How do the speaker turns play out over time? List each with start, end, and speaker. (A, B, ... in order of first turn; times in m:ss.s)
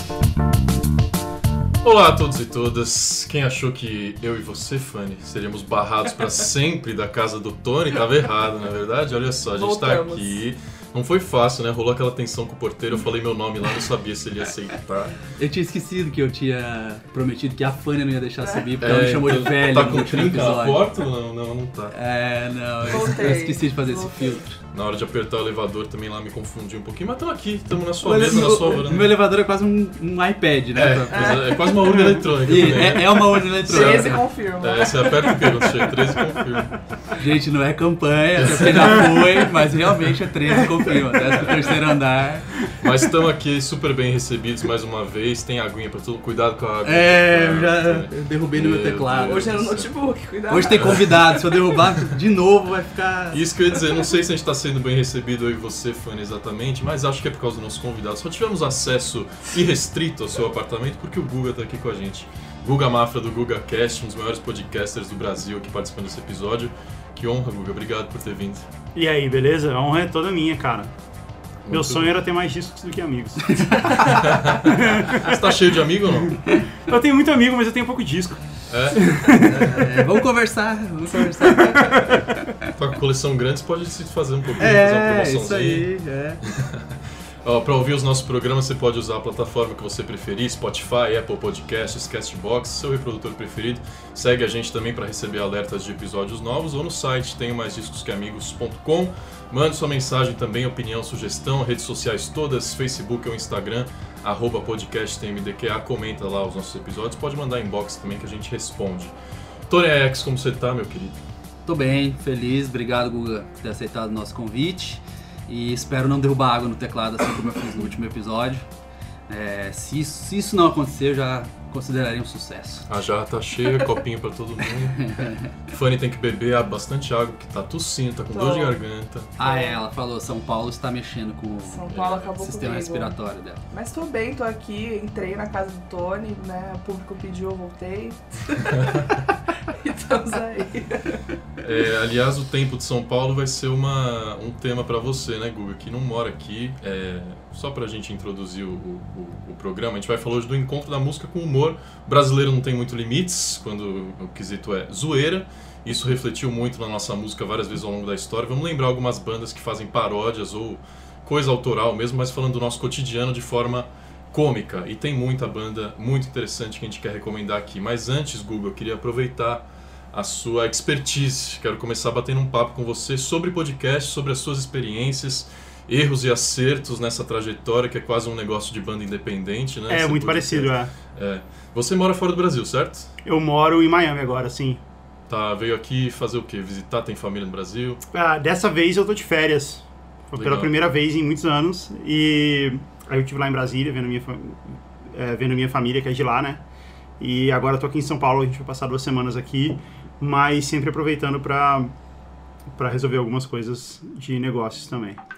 0:01.8-0:15.2 A
0:09.6-0:10.4 B
0:15.3-0:20.8 C
0:18.4-0:18.7 B
0:18.8-0:22.0 A
0:21.9-0:24.6 C
0:22.9-0:24.4 B
0:24.7-0:29.1 A
0:28.0-0:31.4 C
0:30.8-0:36.8 A
0:31.1-0:32.0 B
0:32.4-0:34.2 C
0:33.7-0:35.9 B
0:37.1-0:42.5 C
0:38.4-0:39.2 A
0:42.7-0:49.9 A
0:46.8-0:49.6 C
0:49.3-0:51.1 B
0:50.5-0:53.4 C
0:53.3-1:08.7 A
0:53.8-0:54.0 B
1:09.0-1:10.9 D
1:11.6-1:12.2 A
1:11.7-1:15.6 D
1:13.7-1:14.1 C
1:14.1-1:16.4 A
1:16.8-1:19.8 D
1:18.7-1:19.1 A
1:19.4-1:21.9 C
1:22.7-1:25.9 A
1:24.6-1:26.4 C
1:26.5-1:49.1 A
1:49.7-1:51.2 A
1:51.7-1:58.7 C
1:59.3-2:02.9 C
2:02.9-2:09.3 A
2:05.0-2:05.5 C
2:08.3-2:08.8 B
2:09.4-2:13.6 C
2:09.4-2:09.8 B
2:11.6-2:13.2 B
2:11.9-2:12.3 A
2:13.7-2:21.2 B
2:18.8-2:19.0 A
2:21.6-3:03.1 A
2:59.9-3:00.9 D
3:03.2-3:04.8 D
3:05.3-3:08.0 A
3:08.1-3:16.6 D
3:10.4-3:10.8 A
3:17.2-3:21.9 D
3:22.8-3:25.2 D